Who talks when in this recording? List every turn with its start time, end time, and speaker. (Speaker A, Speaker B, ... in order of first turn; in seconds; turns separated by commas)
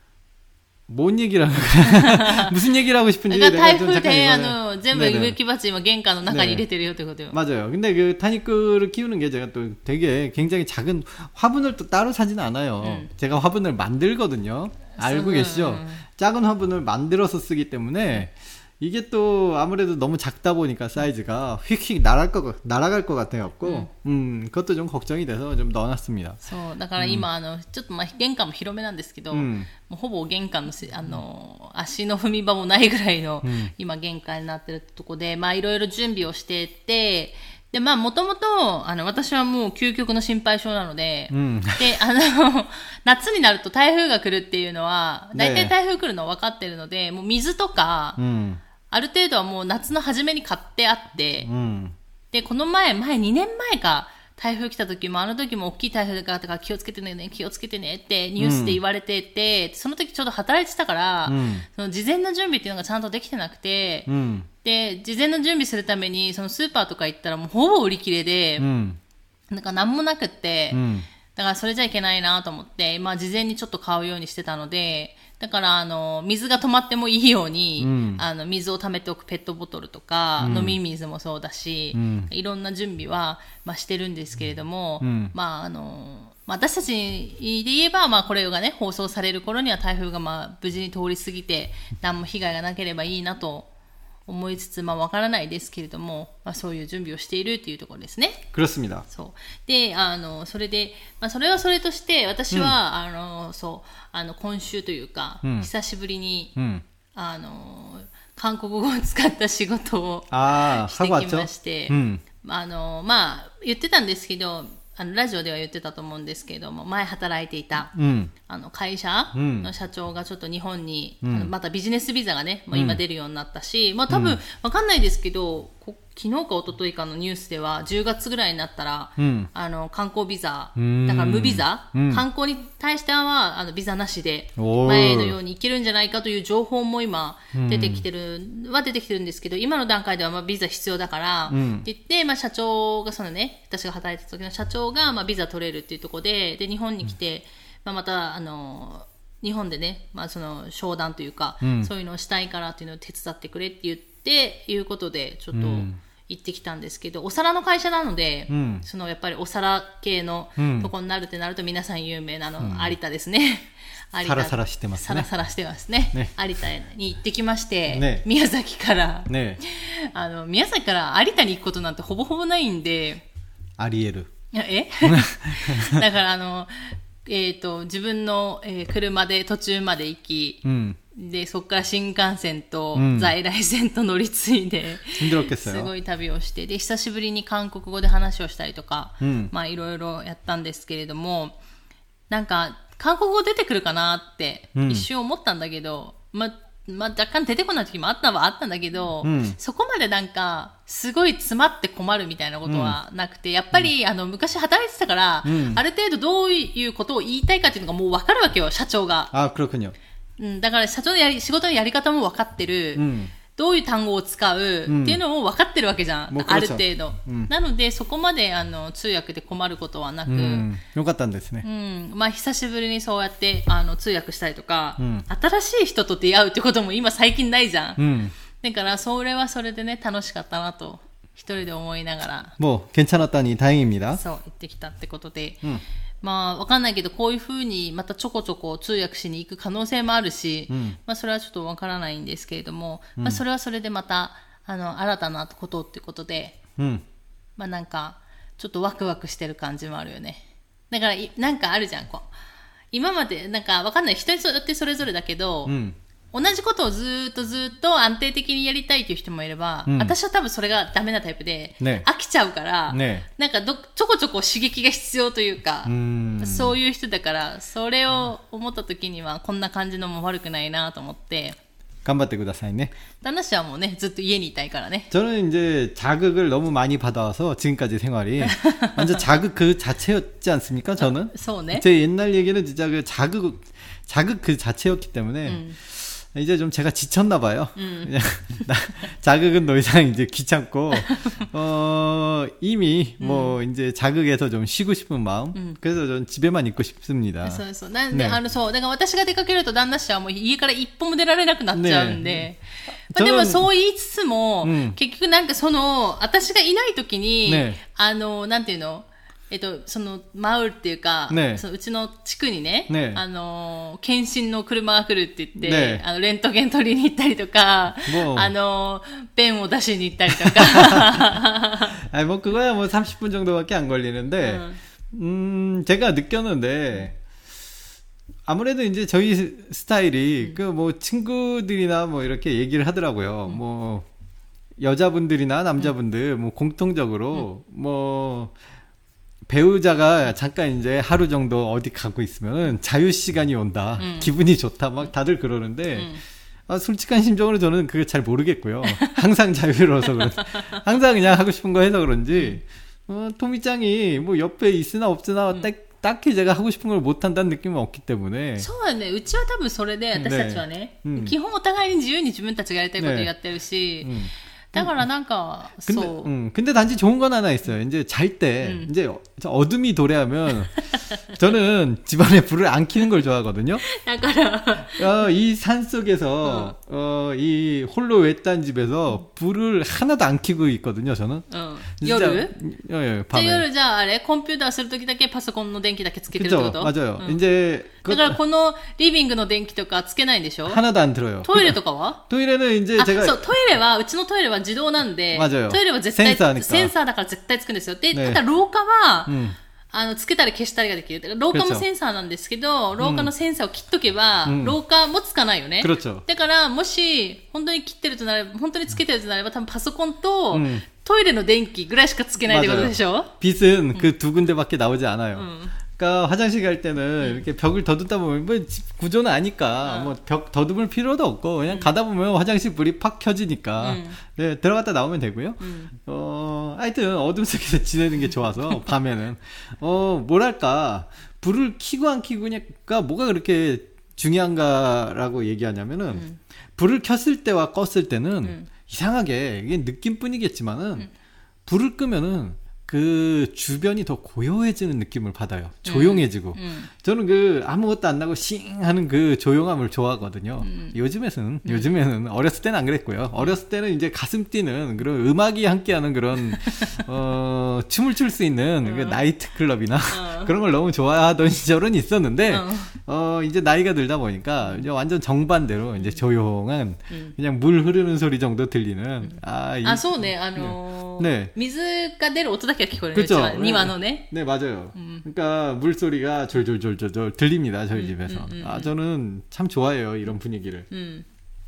Speaker A: 0.9-5.4, Speaker B: 1.8-2.5, Speaker B: 3.3-7.4, Speaker A: 6.3-6.6, Speaker A: 7.3-26.4, Speaker B: 12.8-13.1, Speaker B: 15.0-16.0, Speaker B: 23.6-23.9, Speaker B: 26.4-48.2, Speaker A: 27.0-27.2, Speaker A: 29.3-29.7, Speaker A: 33.4-33.7, Speaker A: 41.3-42.0, Speaker A: 45.3-45.7, Speaker A: 48.2-48.6, Speaker B: 48.9-51.5, Speaker A: 51.4-51.9, Speaker B: 52.3-64.1, Speaker A: 58.4-58.8, Speaker A: 61.3-61.6, Speaker A: 64.1-64.5, Speaker B: 64.6-68.7, Speaker A: 68.6-69.0, Speaker B: 69.5-70.8, Speaker A: 70.7-71.1, Speaker B: 71.3-93.7, Speaker A: 77.8-78.2, Speaker A: 80.4-80.8, Speaker A: 81.9-82.3, Speaker A: 85.0-85.3, Speaker B: 94.3-98.4, Speaker A: 98.5-99.0, Speaker B: 99.1-106.5, Speaker A: 102.5-102.8, Speaker A: 105.4-105.7, Speaker A: 106.5-106.8, Speaker B: 107.1-117.9, Speaker A: 110.3-112.2, Speaker A: 117.9-118.3, Speaker B: 118.5-173.2, Speaker A: 119.3-119.7, Speaker A: 121.2-121.5, Speaker A: 122.7-123.0, Speaker A: 124.1-124.4, Speaker A: 129.2-129.5, Speaker A: 130.8-132.2, Speaker A: 134.6-135.4, Speaker A: 137.5-138.0, Speaker A: 141.5-141.9, Speaker A: 151.6-151.9, Speaker A: 155.5-156.0, Speaker A: 158.5-158.8, Speaker A: 160.6-160.9, Speaker A: 162.6-162.9, Speaker A: 164.2-165.3, Speaker A: 167.9-168.2, Speaker A: 169.3-169.6, Speaker A: 173.8-174.3, Speaker B: 174.5-191.6, Speaker A: 175.1-176.0, Speaker A: 180.6-181.0, Speaker A: 182.9-183.3, Speaker A: 185.2-185.9, Speaker A: 189.2-189.5, Speaker B: 192.3-209.3, Speaker A: 194.7-195.1, Speaker A: 199.2-199.6, Speaker A: 202.7-203.0, Speaker A: 205.4-205.8, Speaker A: 209.3-209.9, Speaker B: 210.4-220.7, Speaker A: 212.9-213.3, Speaker A: 214.9-215.2, Speaker A: 216.3-217.5, Speaker A: 220.3-221.7, Speaker B: 221.6-232.5, Speaker A: 225.0-225.2, Speaker A: 228.0-228.3, Speaker A: 232.6-234.2, Speaker B: 234.1-235.6, Speaker B: 236.2-246.6, Speaker A: 240.7-241.0, Speaker A: 246.8-247.0, Speaker B: 247.6-252.3, Speaker B: 252.9-255.7, Speaker A: 255.7-255.9, Speaker B: 256.3-271.6, Speaker A: 259.9-260.1, Speaker A: 261.8-262.1, Speaker A: 262.9-263.2, Speaker A: 265.9-266.8, Speaker A: 272.0-272.9, Speaker B: 273.2-275.1, Speaker A: 275.1-298.4, Speaker B: 278.4-279.2, Speaker B: 281.0-281.8, Speaker B: 285.4-285.8, Speaker B: 287.8-288.1, Speaker B: 290.9-291.4, Speaker B: 293.2-293.6, Speaker B: 297.4-322.0, Speaker A: 301.7-302.4, Speaker A: 303.1-303.6, Speaker A: 304.6-305.0, Speaker A: 307.4-307.8, Speaker A: 311.3-311.6, Speaker A: 312.9-313.2, Speaker A: 315.6-316.0, Speaker A: 318.1-318.5, Speaker A: 320.4-321.3, Speaker A: 321.9-327.2, Speaker B: 324.4-324.8, Speaker A: 328.5-334.1, Speaker A: 334.8-338.5, Speaker A: 339.5-346.1, Speaker B: 344.0-344.3, Speaker B: 345.9-346.2, Speaker A: 346.7-358.7, Speaker B: 348.9-349.2, Speaker B: 350.3-350.8, Speaker B: 352.3-352.6, Speaker B: 358.6-366.3, Speaker A: 360.1-361.3, Speaker A: 363.0-363.3, Speaker A: 364.0-365.0, Speaker A: 365.8-373.8, Speaker B: 368.6-368.9, Speaker B: 370.8-371.2, Speaker B: 373.8-375.3, Speaker A: 374.9-381.4, Speaker B: 376.4-376.7, Speaker B: 381.5-382.5, Speaker A: 382.0-383.6, Speaker B: 383.3-387.4, Speaker A: 386.3-388.4, Speaker B: 388.1-390.8, Speaker A: 390.6-393.4, Speaker B: 391.4-392.2, Speaker B: 393.0-399.4, Speaker A: 395.3-396.9, Speaker A: 398.1-398.4, Speaker A: 399.3-399.6, Speaker B: 399.9-413.3, Speaker A: 401.5-401.8, Speaker A: 403.0-403.3, Speaker A: 404.4-404.8, Speaker A: 405.8-406.2, Speaker A: 410.5-410.8, Speaker A: 412.5-436.2, Speaker B: 415.3-415.7, Speaker B: 419.8-420.1, Speaker B: 423.8-424.2, Speaker B: 425.6-425.9, Speaker B: 436.1-436.4, Speaker A: 436.8-441.1, Speaker B: 438.4-438.7, Speaker A: 441.6-471.5, Speaker B: 445.9-446.9, Speaker B: 450.6-451.0, Speaker B: 451.6-451.9, Speaker B: 456.7-457.0, Speaker B: 458.8-459.2, Speaker B: 460.1-460.5, Speaker B: 462.5-462.9, Speaker B: 464.6-464.9, Speaker B: 467.1-467.3, Speaker B: 469.2-474.3, Speaker A: 473.1-480.9, Speaker B: 474.9-475.2, Speaker B: 477.9-478.9, Speaker B: 480.9-481.2